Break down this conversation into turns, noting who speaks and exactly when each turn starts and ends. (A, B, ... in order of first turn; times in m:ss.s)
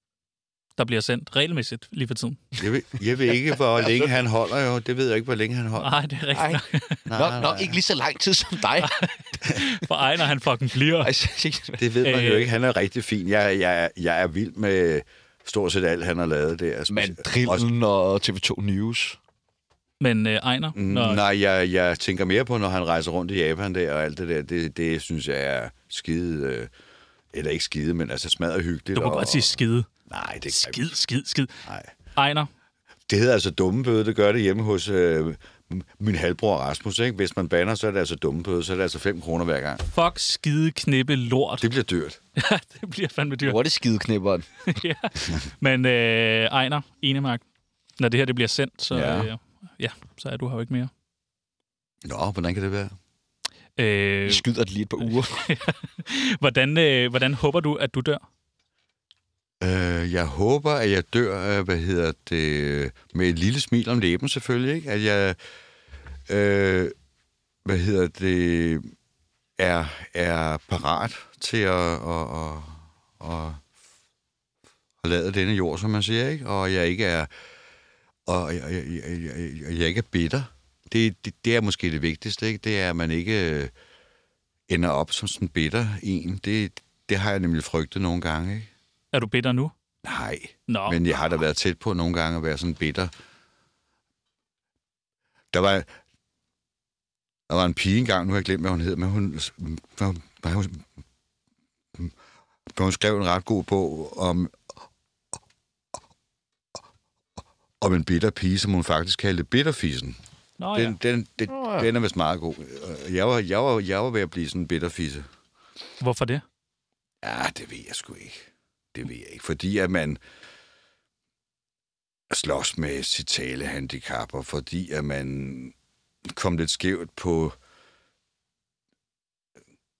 0:00.8-0:02.4 A
0:02.6-0:05.9 B
0:05.8-0:07.0 A
0:06.3-0:09.0 C
0:07.1-0:07.8 B
0:08.8-0:11.1 A
0:11.0-0:11.9 C
0:11.8-0:17.6 B
0:12.0-0:12.5 A
0:16.9-0:19.2 C
0:20.0-0:21.2 A
0:20.7-0:26.7 B
0:27.3-0:29.6 B
0:28.9-0:29.9 A
0:30.1-0:30.9 B
0:30.5-0:31.6 A
0:31.6-0:31.9 B
0:32.2-0:32.5 A
0:33.1-0:39.8 B
0:39.9-0:41.7 A
0:41.6-0:42.2 B
0:42.4-0:43.6 A
0:43.4-0:44.5 C
0:44.7-0:47.4 A
0:48.0-0:50.9 A
0:48.9-0:49.3 B
0:52.0-0:53.0 B
0:53.8-0:54.4 A
0:54.2-0:55.5 C
0:55.0-0:58.2 A
0:59.6-1:05.4 B
1:06.3-1:06.9 B
1:07.6-1:08.9 B
1:09.6-1:13.6 B
1:15.0-1:17.3 B
1:18.3-1:23.7 B
1:24.7-1:28.7 B
1:29.1-1:29.7 A
1:30.0-1:33.1 B
1:30.7-1:31.0 A
1:35.5-1:35.9 B
1:37.5-1:40.8 B
1:42.7-1:44.6 B
1:47.8-1:50.2 B
1:50.6-1:51.0 A
1:50.7-1:55.3 B
1:51.5-1:51.9 C
1:56.0-1:56.4 A
1:57.2-2:00.2 B
2:02.3-2:05.7 B
2:06.2-2:07.6 B